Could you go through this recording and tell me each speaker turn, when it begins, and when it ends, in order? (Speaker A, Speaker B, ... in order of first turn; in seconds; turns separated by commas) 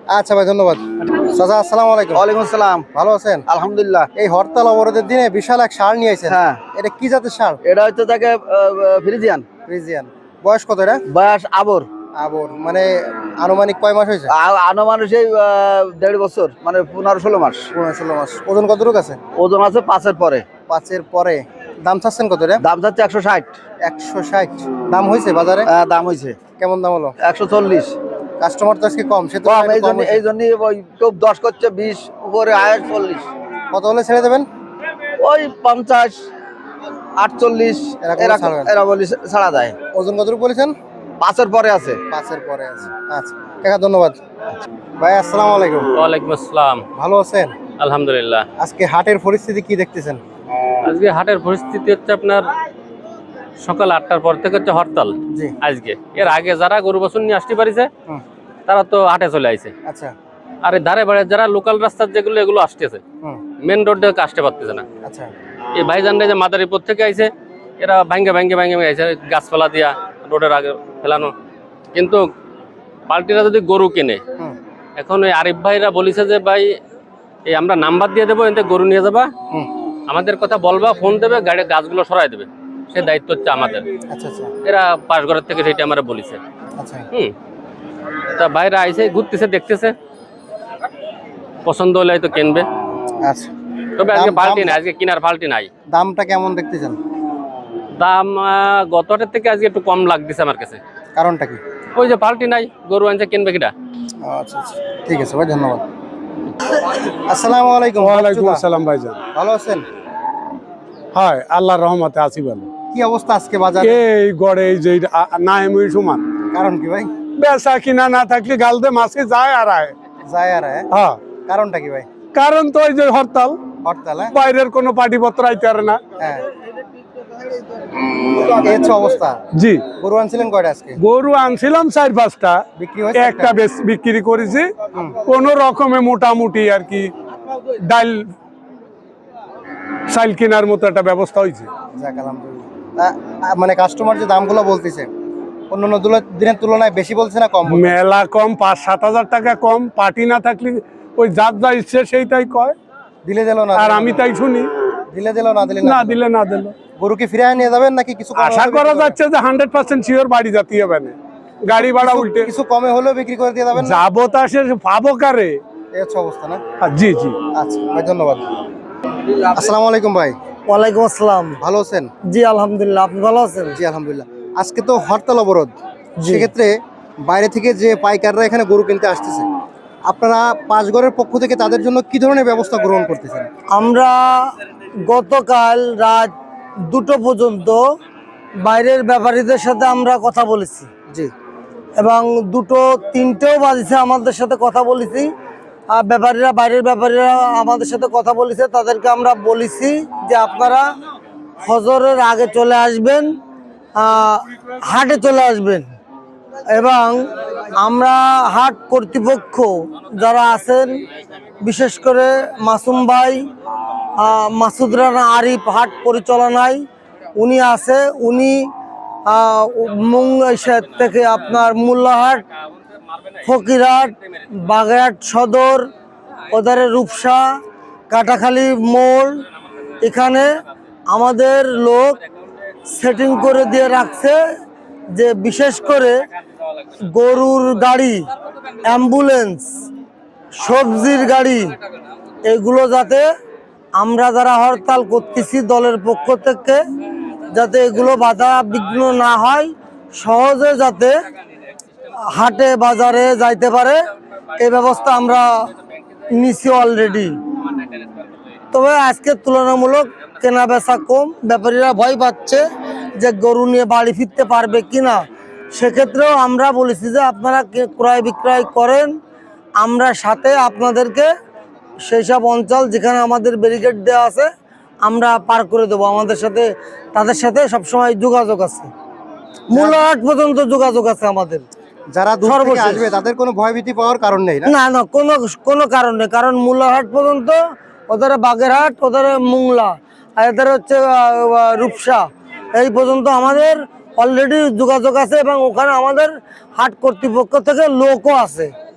Speaker A: 0.1-2.2, Speaker B: 2.1-2.9, Speaker A: 2.9-3.4, Speaker B: 3.5-4.1, Speaker A: 4.2-7.6, Speaker B: 6.3-6.6, Speaker B: 7.6-9.5, Speaker A: 9.7-11.0, Speaker B: 11.1-11.9, Speaker A: 12.2-14.3, Speaker B: 14.3-17.7, Speaker A: 17.7-19.2, Speaker B: 19.3-20.5, Speaker A: 20.7-22.6, Speaker B: 22.6-23.6, Speaker A: 23.8-25.7, Speaker B: 25.6-26.4, Speaker A: 26.6-27.1, Speaker B: 27.2-28.0, Speaker A: 28.4-30.2, Speaker B: 29.4-33.3, Speaker A: 33.7-34.5, Speaker B: 35.2-36.2, Speaker B: 37.2-39.8, Speaker A: 38.0-38.7, Speaker A: 39.9-40.8, Speaker B: 41.2-42.0, Speaker A: 42.1-44.2, Speaker A: 45.0-45.9, Speaker C: 46.0-46.8, Speaker A: 47.0-47.5, Speaker C: 47.8-48.4, Speaker A: 48.6-50.2, Speaker C: 50.8-52.5, Speaker C: 53.6-57.9, Speaker C: 58.7-59.7, Speaker A: 59.9-60.1, Speaker C: 60.6-63.0, Speaker C: 63.6-64.8, Speaker A: 65.0-65.3, Speaker C: 65.8-71.3, Speaker C: 71.9-72.2, Speaker C: 73.1-74.2, Speaker C: 75.0-76.7, Speaker C: 77.5-79.3, Speaker C: 80.1-83.8, Speaker A: 84.1-84.5, Speaker C: 84.6-86.4, Speaker A: 86.8-87.0, Speaker C: 88.3-89.9, Speaker C: 91.6-92.7, Speaker A: 93.2-93.5, Speaker C: 94.0-95.7, Speaker A: 94.1-94.8, Speaker A: 95.9-97.0, Speaker C: 98.0-100.8, Speaker A: 101.2-101.6, Speaker C: 102.0-103.7, Speaker A: 104.2-105.8, Speaker A: 107.3-108.6, Speaker D: 108.0-109.2, Speaker A: 109.3-109.8, Speaker D: 111.1-112.7, Speaker A: 112.9-114.0, Speaker D: 113.8-116.2, Speaker A: 116.5-117.1, Speaker D: 117.4-119.9, Speaker A: 120.2-120.9, Speaker D: 120.9-121.2, Speaker A: 121.5-122.1, Speaker D: 122.3-123.6, Speaker A: 123.8-124.3, Speaker D: 124.3-126.0, Speaker A: 126.2-126.4, Speaker A: 128.3-129.4, Speaker D: 129.6-129.8, Speaker A: 130.0-131.0, Speaker D: 131.0-132.6, Speaker A: 132.8-133.5, Speaker D: 133.1-134.7, Speaker D: 135.2-137.1, Speaker D: 137.8-138.3, Speaker D: 140.1-141.7, Speaker A: 141.9-145.1, Speaker A: 145.7-147.9, Speaker D: 147.7-152.8, Speaker A: 153.2-154.2, Speaker D: 153.8-154.7, Speaker A: 155.1-156.2, Speaker D: 155.8-156.7, Speaker A: 157.0-159.2, Speaker D: 158.4-162.5, Speaker A: 161.8-164.0, Speaker D: 163.8-165.6, Speaker A: 165.9-166.6, Speaker D: 166.8-167.4, Speaker A: 167.6-168.5, Speaker A: 169.3-170.3, Speaker E: 170.7-171.6, Speaker A: 171.6-172.1, Speaker E: 172.2-173.8, Speaker A: 173.8-175.7, Speaker E: 176.2-176.5, Speaker A: 176.3-179.5, Speaker A: 180.1-183.5, Speaker E: 183.7-184.5, Speaker E: 185.1-187.8, Speaker E: 188.6-190.9, Speaker E: 192.0-195.3, Speaker E: 195.9-200.9, Speaker E: 201.6-203.3, Speaker E: 203.9-205.9, Speaker E: 206.7-211.0, Speaker E: 211.6-213.5, Speaker E: 214.2-216.8, Speaker E: 217.3-218.7, Speaker E: 219.2-222.4, Speaker E: 223.4-225.9, Speaker E: 226.5-227.6, Speaker E: 228.1-229.4, Speaker E: 230.0-230.5, Speaker E: 231.1-232.2, Speaker E: 232.9-234.4, Speaker E: 235.1-236.3, Speaker E: 237.0-238.3, Speaker E: 238.8-239.7, Speaker E: 240.5-241.8, Speaker E: 242.4-243.3, Speaker E: 244.0-246.8, Speaker E: 247.5-251.2, Speaker E: 252.1-254.0, Speaker E: 254.6-255.7, Speaker E: 256.3-257.4, Speaker C: 257.8-258.1, Speaker E: 258.7-262.6, Speaker E: 263.2-269.1, Speaker E: 269.8-271.3, Speaker E: 272.1-274.5, Speaker E: 275.0-278.9, Speaker E: 279.7-281.6, Speaker A: 279.7-280.0, Speaker A: 282.1-284.7, Speaker E: 282.4-283.1, Speaker E: 284.6-287.6, Speaker E: 288.1-298.7